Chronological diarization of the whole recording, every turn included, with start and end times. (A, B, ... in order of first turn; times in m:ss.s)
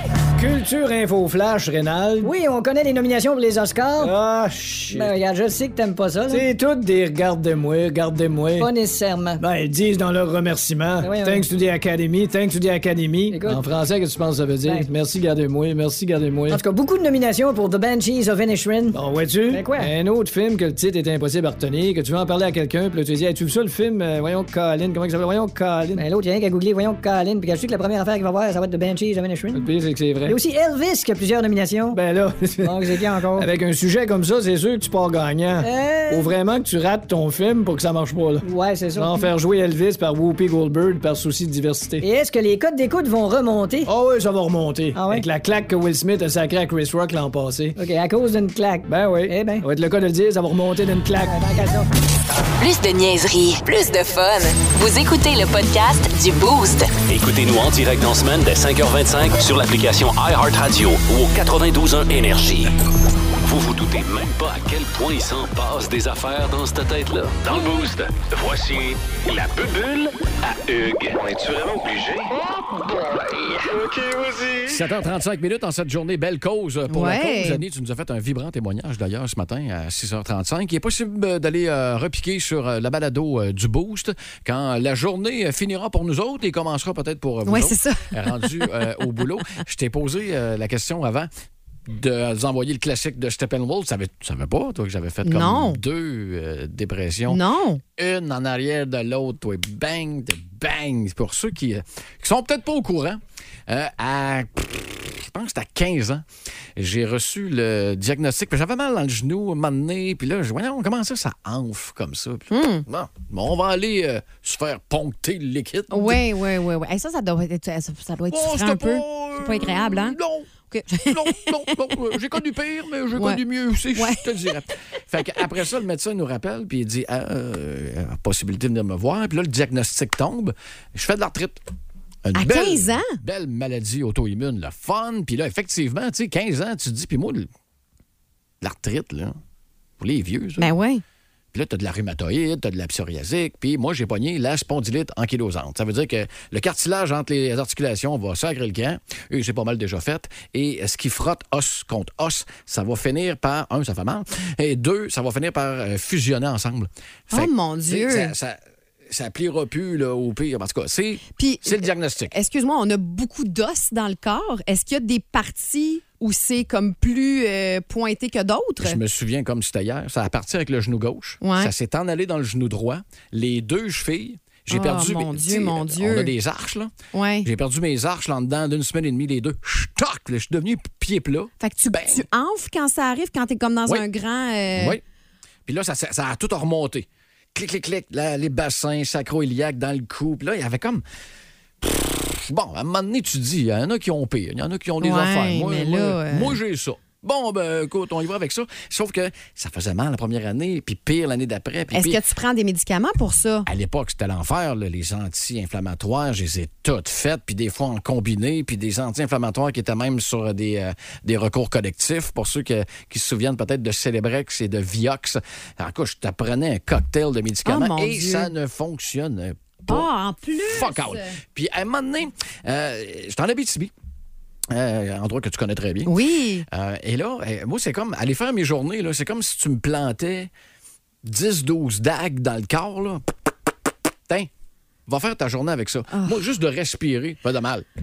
0:00.4-0:02.3 A
0:02.2-0:04.1 B
0:04.0-0:05.1 A
0:04.9-0:06.5 B
0:06.3-0:08.7 A
0:08.6-0:09.4 B
0:09.4-0:16.6 A
0:11.0-0:11.4 B
0:13.3-0:13.6 B
0:16.5-0:19.0 B
0:18.9-0:26.0 A
0:19.5-0:19.9 B
0:26.0-0:29.7 B
0:29.5-0:30.4 A
0:30.2-0:32.0 B
0:31.9-0:32.7 A
0:32.6-0:33.5 B
0:33.4-0:38.4 A
0:35.6-0:36.3 B
0:38.4-0:39.3 B
0:39.0-0:42.0 A
0:42.0-0:43.9 B
0:43.8-0:47.8 A
0:44.9-0:45.2 B
0:47.8-0:49.6 B
0:48.9-0:51.3 A
0:51.3-0:51.9 B
0:52.6-0:56.9 C
0:57.1-1:02.7 D
1:03.4-1:12.3 D
1:14.6-1:31.3 E
1:16.9-1:17.6 F
1:27.4-1:28.6 F
1:31.9-1:37.4 E
1:35.2-1:35.8 F
1:37.3-1:37.8 F
1:38.0-1:46.2 E
1:46.8-1:56.2 E
1:52.5-1:52.8 F
1:55.9-2:00.2 F
1:58.3-2:00.5 E
2:00.7-2:01.9 F
2:01.0-2:11.6 E
2:03.1-2:03.4 F
2:03.9-2:04.5 F
2:12.2-2:17.5 E
2:12.3-2:13.2 F
2:18.6-2:19.4 E
2:20.0-2:20.7 E
2:20.6-2:21.0 F
2:21.5-2:42.3 E
2:37.3-2:38.3 F
2:41.4-2:49.0 F
2:48.8-2:56.9 E
2:51.4-2:51.7 F
2:54.7-2:56.3 F
2:57.1-2:57.5 F
2:57.4-3:02.2 E
3:01.6-3:05.0 F
3:04.7-3:05.0 E
3:05.6-3:11.0 E
3:11.8-3:22.2 E
3:15.0-3:16.6 F
3:21.9-3:23.7 F
3:23.6-3:40.1 E
3:37.6-3:38.5 F
3:39.9-3:41.4 F
3:40.6-3:43.9 E
3:44.7-3:46.2 E
3:46.0-3:46.6 F
3:46.7-3:50.5 E
3:51.2-3:53.3 E
3:55.1-3:57.8 E
3:56.1-3:56.4 F